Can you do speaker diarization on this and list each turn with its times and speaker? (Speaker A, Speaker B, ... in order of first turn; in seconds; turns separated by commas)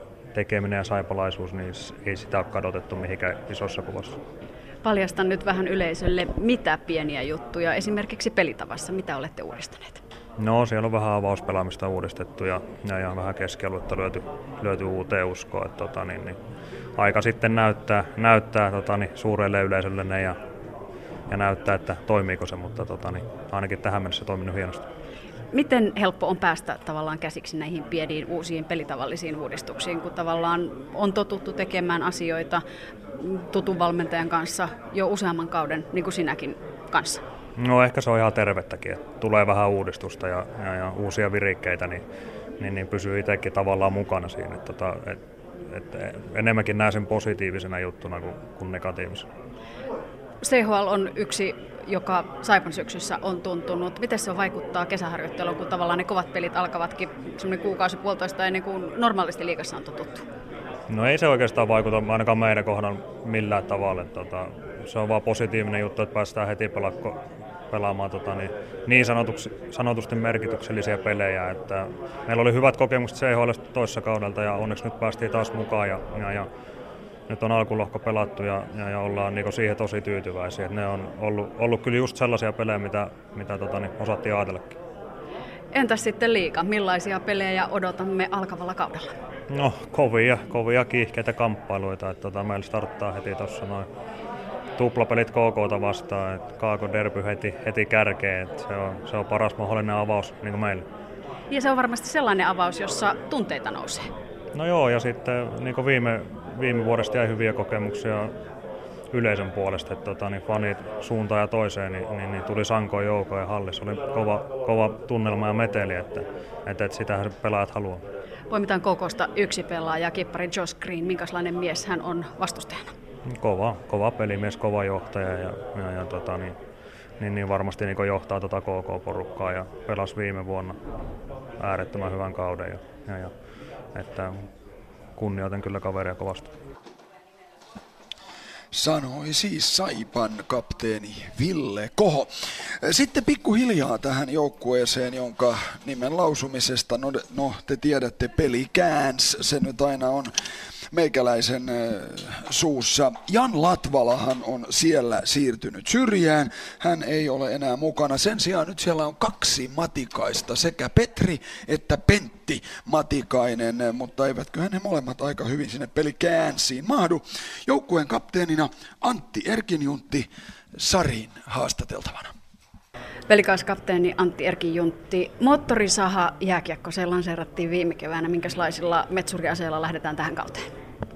Speaker A: 0.3-4.2, Speaker B: 4.8-10.0, Speaker A: 10.4-16.4, Speaker A: 17.0-20.4, Speaker A: 21.3-24.8, Speaker B: 25.5-32.6, Speaker B: 33.2-37.2, Speaker A: 37.6-42.0, Speaker A: 42.6-45.2, Speaker A: 45.7-49.3, Speaker B: 50.4-60.2, Speaker A: 60.9-67.2, Speaker A: 67.7-76.5, Speaker A: 77.3-84.7, Speaker B: 85.7-89.1, Speaker A: 89.5-93.9, Speaker A: 94.8-100.8, Speaker B: 101.5-104.1, Speaker A: 104.5-108.3, Speaker A: 109.1-118.0, Speaker B: 118.5-122.9, Speaker A: 123.3-126.6, Speaker A: 127.2-130.8, Speaker A: 131.6-133.3, Speaker A: 133.9-134.5, Speaker A: 135.2-136.5, Speaker C: 138.7-142.3, Speaker C: 142.8-150.3, Speaker C: 150.9-172.3, Speaker B: 173.3-180.7